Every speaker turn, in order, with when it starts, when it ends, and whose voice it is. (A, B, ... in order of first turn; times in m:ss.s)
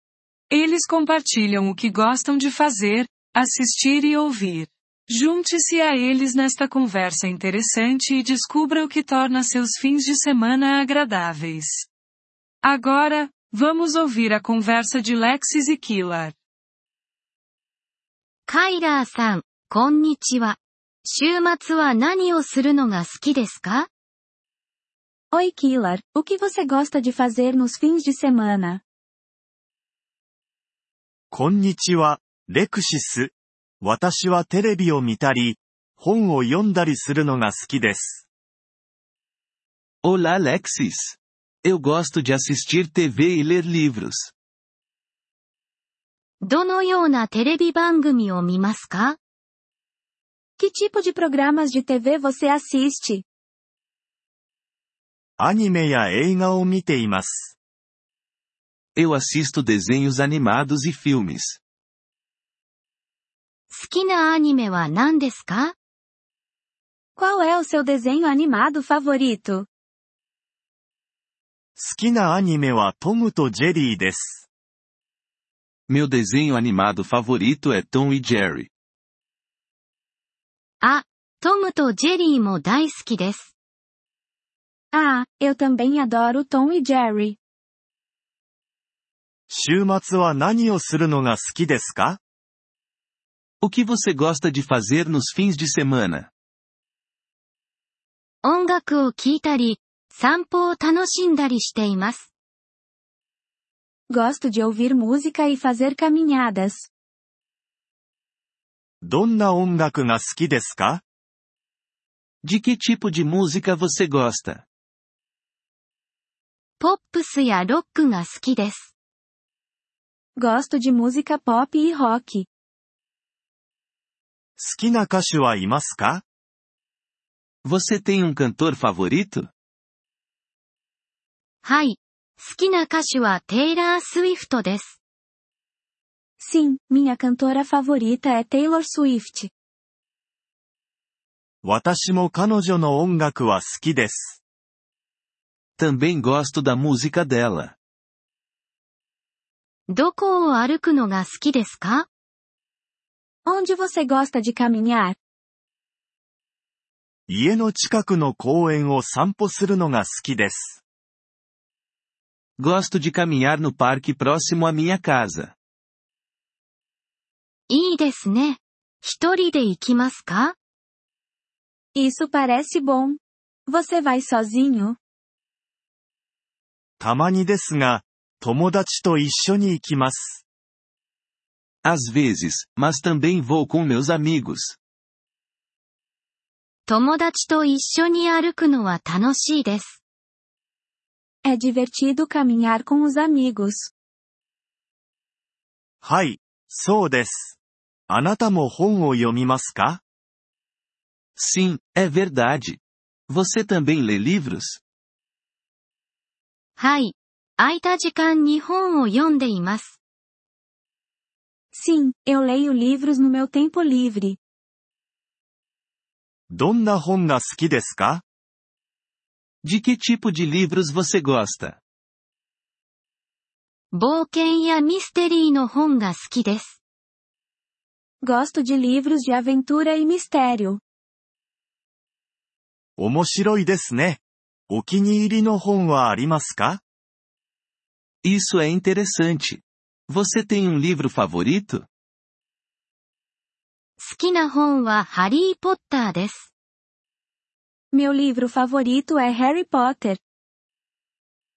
0:00.5-0:11.9 A
0:12.6-0:16.3 A
0:18.5-0:23.9 B
0:25.3-0:28.8 C
0:31.3-0:38.2 D
0:40.0-0:44.3 E
0:46.4-0:49.2 B
0:50.6-0:53.2 C
0:55.4-0:57.5 D
0:59.0-1:01.6 E
1:03.7-1:05.7 B
1:07.2-1:09.7 C
1:11.8-1:14.5 D
1:15.9-1:18.7 E
1:20.8-1:23.5 B
1:24.9-1:27.4 C
1:29.5-1:32.2 D
1:33.6-1:36.3 E
1:38.4-1:42.3 B
1:44.1-1:46.9 C
1:49.0-1:51.0 D
1:52.4-1:54.6 E
1:56.8-1:58.9 B
2:00.4-2:02.5 C
2:04.6-2:06.2 D
2:07.6-2:09.5 E
2:11.6-2:15.0 B
2:16.4-2:19.5 C
2:21.6-2:24.4 D
2:25.8-2:27.7 E
2:29.9-2:32.1 B
2:33.4-2:35.2 C
2:37.3-2:40.8 D
2:42.6-2:45.5 E
2:47.7-2:50.6 B
2:51.9-2:55.0 C
2:57.0-3:00.4 D
3:01.8-3:04.8 E
3:06.9-3:10.0 B
3:11.4-3:13.9 C
3:16.0-3:17.6 D
3:18.1-3:20.0 D
3:21.4-3:24.8 E
3:26.8-3:30.0 B
3:31.7-3:34.4 C
3:36.5-3:38.2 D
3:39.6-3:41.8 E
3:43.9-3:46.8 B
3:48.2-3:50.8 C
3:53.0-3:56.8 D
3:58.2-4:01.9 E
4:04.0-4:06.5 B
4:07.9-4:10.2 C